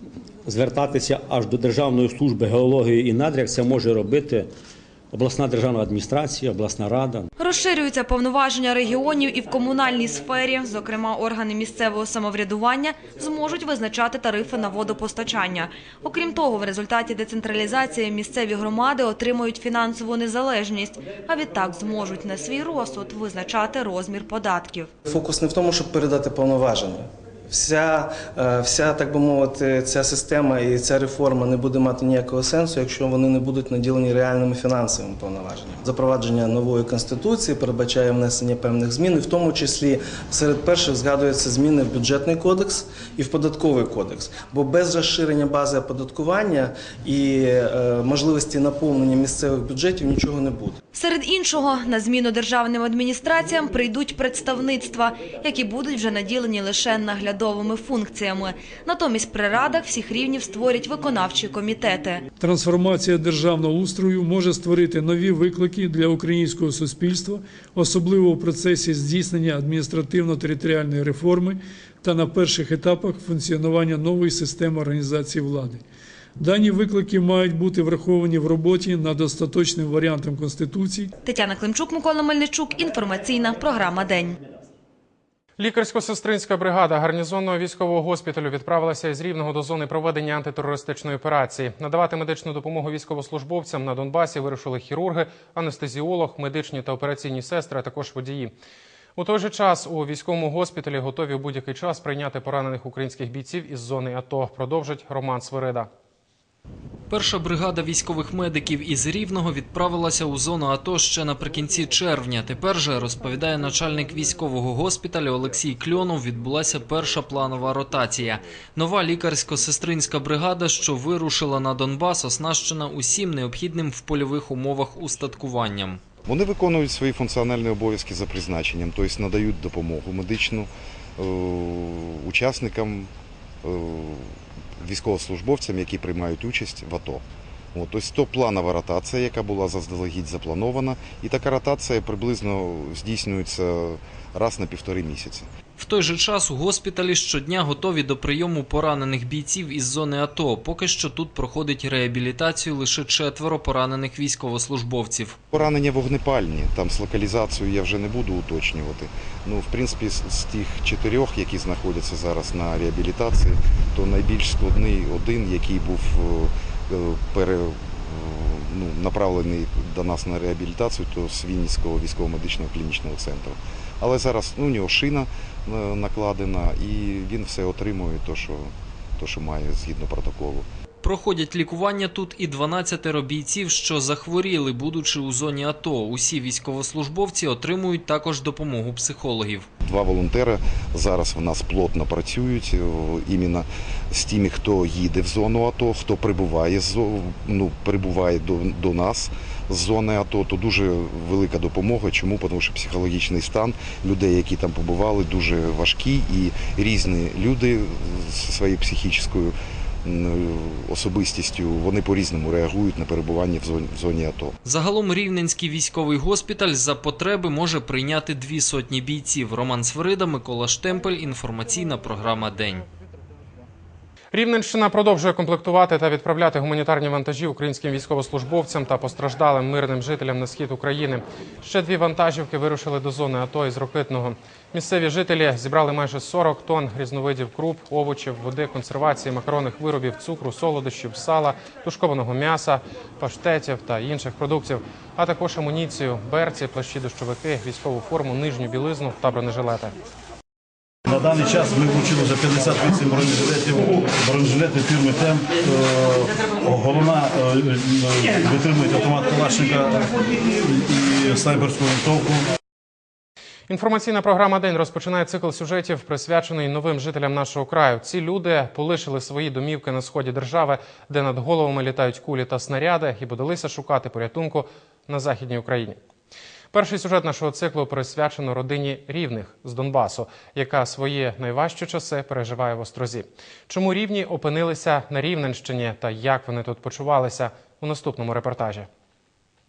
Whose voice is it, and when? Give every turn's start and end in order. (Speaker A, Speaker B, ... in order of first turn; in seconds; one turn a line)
Speaker A: 0.4-4.5
Speaker A: 5.1-7.3
Speaker B: 7.4-24.9
Speaker C: 25.1-50.8
Speaker B: 50.9-62.2
Speaker D: 62.4-75.8
Speaker D: 76.4-81.1
Speaker B: 81.2-84.4
Speaker E: 85.6-98.5
Speaker E: 99.2-105.9
Speaker F: 107.1-126.0
Speaker G: 126.2-133.1
Speaker G: 133.6-137.2
Speaker G: 137.7-145.5
Speaker F: 145.8-155.4
Speaker G: 155.5-180.7
Speaker F: 181.0-189.7
Speaker G: 189.8-214.6
Speaker F: 214.6-222.8
Speaker E: 224.3-249.9
Speaker H: 251.1-260.1
Speaker H: 260.6-262.4
Speaker E: 263.7-276.0
Speaker E: 276.7-288.9